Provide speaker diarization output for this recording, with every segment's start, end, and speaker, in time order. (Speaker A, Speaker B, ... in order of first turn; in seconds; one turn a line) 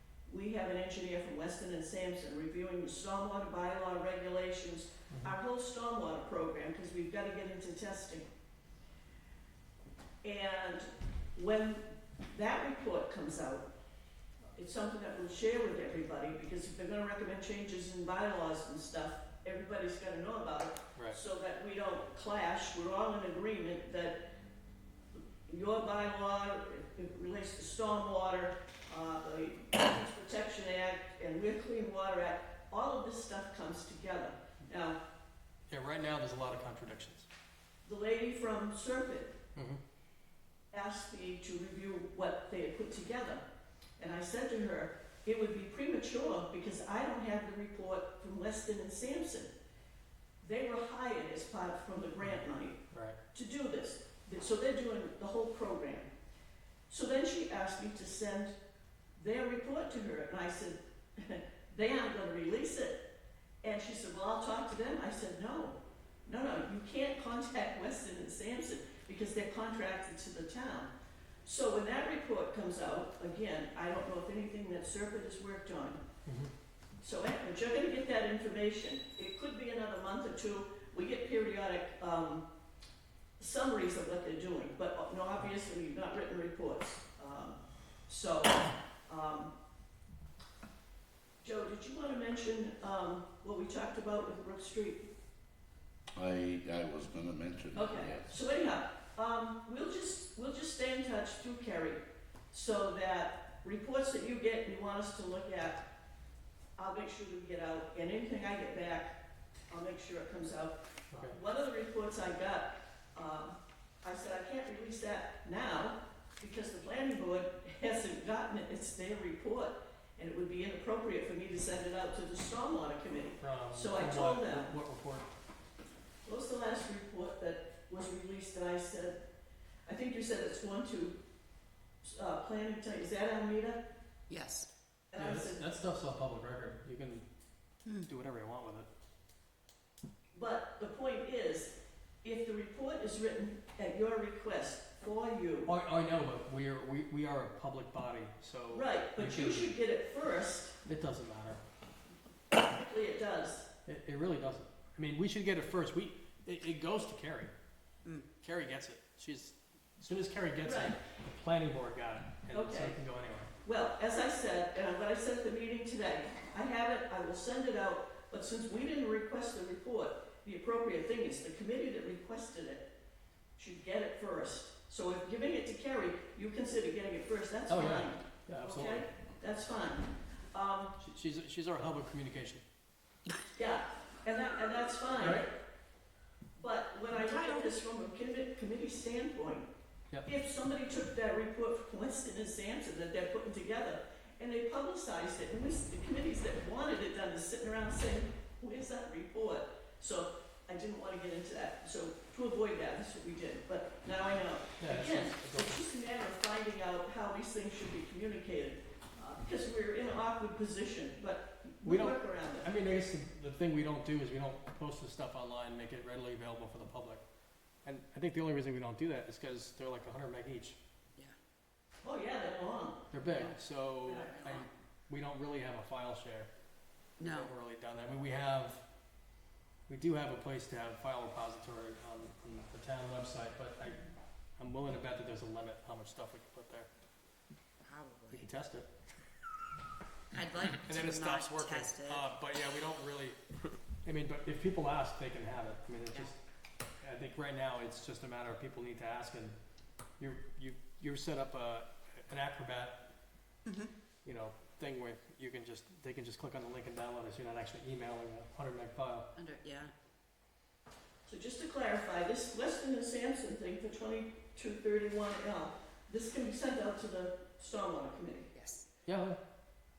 Speaker A: 0.3-8.3
Speaker B: 5.1-5.4
Speaker A: 10.2-13.7
Speaker A: 14.6-24.2
Speaker A: 25.1-35.0
Speaker B: 35.7-37.3
Speaker A: 37.9-39.4
Speaker B: 39.5-39.8
Speaker A: 40.7-43.4
Speaker A: 44.0-49.5
Speaker A: 50.4-52.8
Speaker B: 52.9-53.2
Speaker A: 53.3-56.1
Speaker A: 56.9-58.6
Speaker A: 59.2-63.0
Speaker A: 63.6-70.9
Speaker A: 71.5-76.0
Speaker B: 76.3-76.5
Speaker A: 77.0-82.5
Speaker A: 83.4-89.5
Speaker A: 91.4-95.1
Speaker C: 96.2-98.4
Speaker A: 97.7-105.8
Speaker A: 106.8-109.2
Speaker A: 109.7-124.8
Speaker B: 123.4-125.3
Speaker A: 126.2-129.2
Speaker A: 129.9-131.2
Speaker A: 132.0-133.8
Speaker D: 134.3-134.7
Speaker A: 135.1-135.7
Speaker B: 135.2-137.2
Speaker D: 137.8-138.1
Speaker B: 138.0-138.9
Speaker A: 140.3-145.7
Speaker B: 145.7-149.7
Speaker A: 148.7-150.8
Speaker B: 150.8-151.6
Speaker A: 152.5-153.7
Speaker B: 153.9-157.5
Speaker B: 158.4-163.5
Speaker A: 160.6-161.0
Speaker A: 162.5-163.0
Speaker A: 163.6-172.9
Speaker A: 173.6-181.0
Speaker B: 177.7-179.1
Speaker B: 181.0-182.6
Speaker A: 183.6-185.5
Speaker B: 185.2-185.5
Speaker A: 186.6-189.7
Speaker D: 187.2-187.7
Speaker A: 190.2-212.7
Speaker B: 204.8-205.8
Speaker B: 211.8-217.2
Speaker B: 217.8-220.8
Speaker A: 222.0-223.0
Speaker B: 223.1-226.5
Speaker D: 223.3-224.7
Speaker D: 227.2-227.5
Speaker B: 227.2-228.8
Speaker B: 229.9-234.0
Speaker B: 234.6-236.9
Speaker D: 237.8-238.5
Speaker B: 238.3-238.9
Speaker D: 240.3-242.3
Speaker B: 240.8-243.4
Speaker B: 244.0-246.4
Speaker B: 247.0-249.6
Speaker B: 250.2-253.0
Speaker D: 253.7-253.9
Speaker B: 254.2-259.3
Speaker D: 259.4-259.9
Speaker A: 261.3-268.5
Speaker D: 268.5-268.9
Speaker B: 269.1-269.4